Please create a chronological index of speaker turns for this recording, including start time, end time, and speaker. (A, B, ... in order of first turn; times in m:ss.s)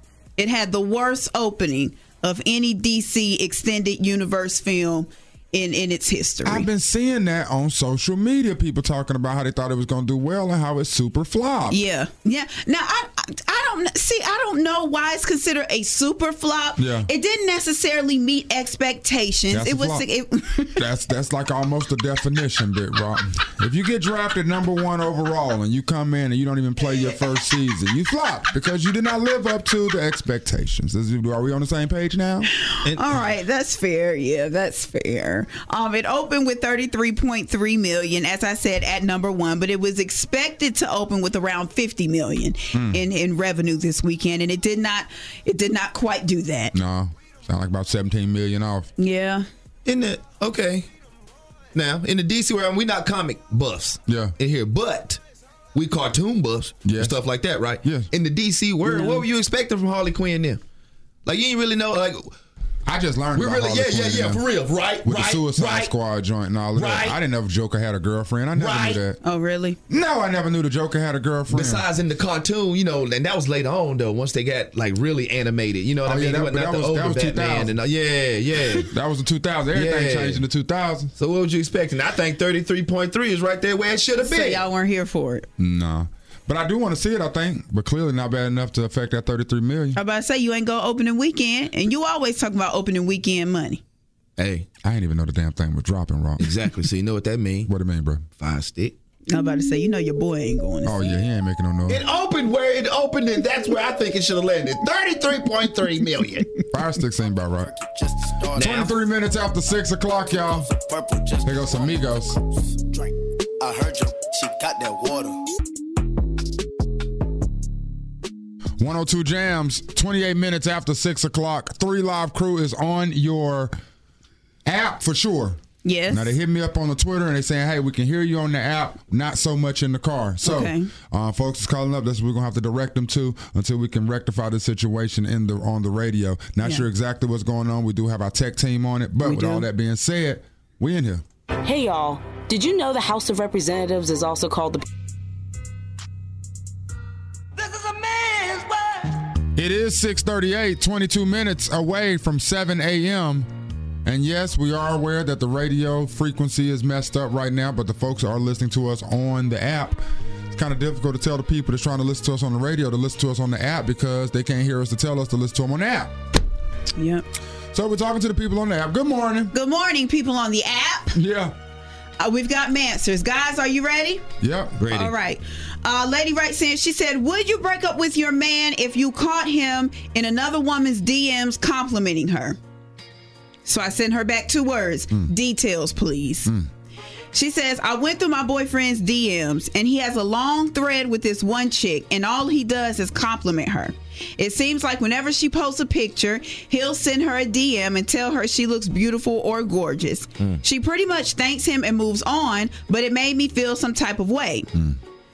0:00.4-0:06.7 A
0:06.4-0:11.8 B
0:11.7-0:20.8 A
0:16.8-0:17.1 B
0:19.5-0:20.0 B
0:20.8-0:32.5 B
0:32.6-0:46.7 A
0:32.8-0:33.2 C
0:42.7-0:43.0 B
0:46.7-0:48.9 B
0:49.0-0:49.4 A
0:49.8-0:50.9 C
0:51.7-0:55.2 C
0:54.1-0:54.3 B
0:55.7-1:00.6 C
0:56.8-0:57.2 B
0:57.8-0:58.1 B
0:58.8-0:59.2 A
1:01.2-1:02.3 C
1:02.8-1:04.4 B
1:03.4-1:05.9 C
1:05.0-1:09.2 B
1:06.7-1:07.2 C
1:08.6-1:09.0 C
1:09.2-1:09.8 A
1:09.9-1:11.8 B
1:11.5-1:18.9 C
1:16.0-1:17.7 B
1:18.9-1:21.1 B
1:19.7-1:20.4 C
1:21.2-1:24.6 C
1:24.2-1:25.4 A
1:25.6-1:30.0 B
1:30.0-1:33.8 A
1:34.4-1:34.7 C
1:34.8-1:36.6 B
1:36.4-1:37.7 C
1:37.6-1:38.2 B
1:38.4-1:38.9 C
1:39.3-1:41.2 A
1:40.8-1:42.0 B
1:41.9-1:46.5 C
1:46.7-1:47.7 B
1:47.8-1:48.5 D
1:48.5-1:48.9 C
1:48.5-1:50.7 B
1:50.7-1:51.8 D
1:51.4-1:52.4 B
1:53.6-1:55.3 D
1:58.8-2:03.7 B
2:04.6-2:21.2 B
2:05.8-2:06.3 A
2:10.4-2:10.9 A
2:19.2-2:19.6 A
2:21.6-2:24.8 E
2:29.6-2:33.5 B
2:34.0-2:46.1 B
2:47.0-2:47.2 A
2:47.7-2:49.5 B
2:49.5-2:51.2 A
2:51.1-2:51.5 B
2:52.2-2:54.2 A
2:54.4-2:54.8 B
2:54.8-2:55.1 C
2:54.9-3:02.6 A
3:03.6-3:06.5 A
3:07.3-3:24.7 A